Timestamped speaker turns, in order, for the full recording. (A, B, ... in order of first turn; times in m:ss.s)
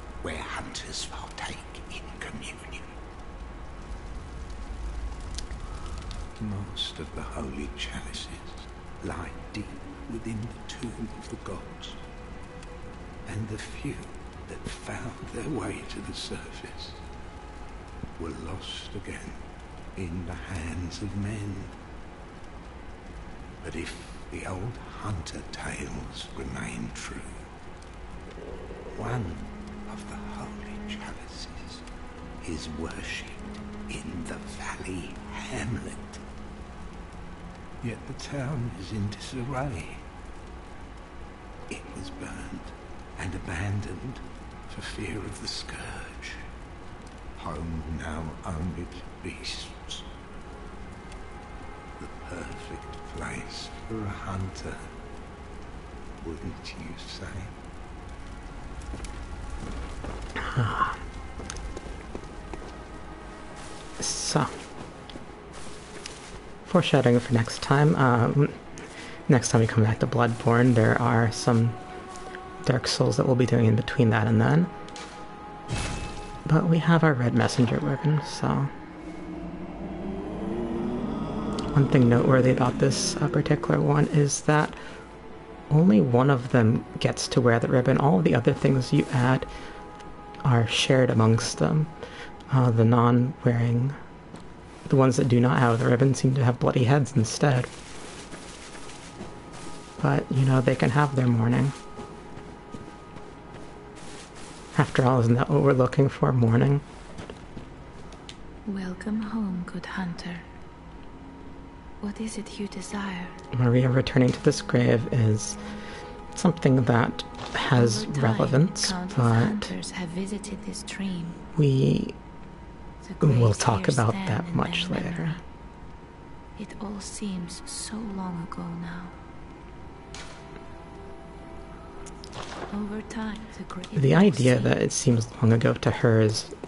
0:00.2-0:02.9 A
0:06.4-0:12.0 A
0:13.3-0:17.0 A
0:18.2-0:19.4 A
0:20.0-0:21.8 A
0:23.6-0:27.5 A
0:28.9-0:31.8 A
0:32.4-0:36.2 A
0:37.8-0:40.0 A
0:41.7-0:46.4 A
0:47.4-0:50.1 A
0:52.0-0:54.9 A
0:56.2-0:57.5 A
1:00.4-1:01.0 B
1:04.0-1:04.5 B
1:06.7-1:08.6 B
1:09.3-1:11.8 B
1:12.6-1:14.7 B
1:16.5-1:18.7 B
1:21.7-1:24.8 B
1:25.7-1:29.5 B
1:30.4-1:31.9 B
1:32.5-1:34.0 B
1:34.9-1:37.7 B
1:40.0-1:41.8 B
1:44.8-1:46.8 B
1:48.7-1:50.4 C
1:52.0-1:53.4 C
1:53.5-1:55.6 B
1:56.3-1:59.7 B
1:57.7-2:01.4 C
2:01.6-2:02.2 B
2:03.0-2:05.4 C
2:03.2-2:05.4 B
2:06.6-2:09.2 C
2:12.7-2:14.8 C
2:14.0-2:16.5 B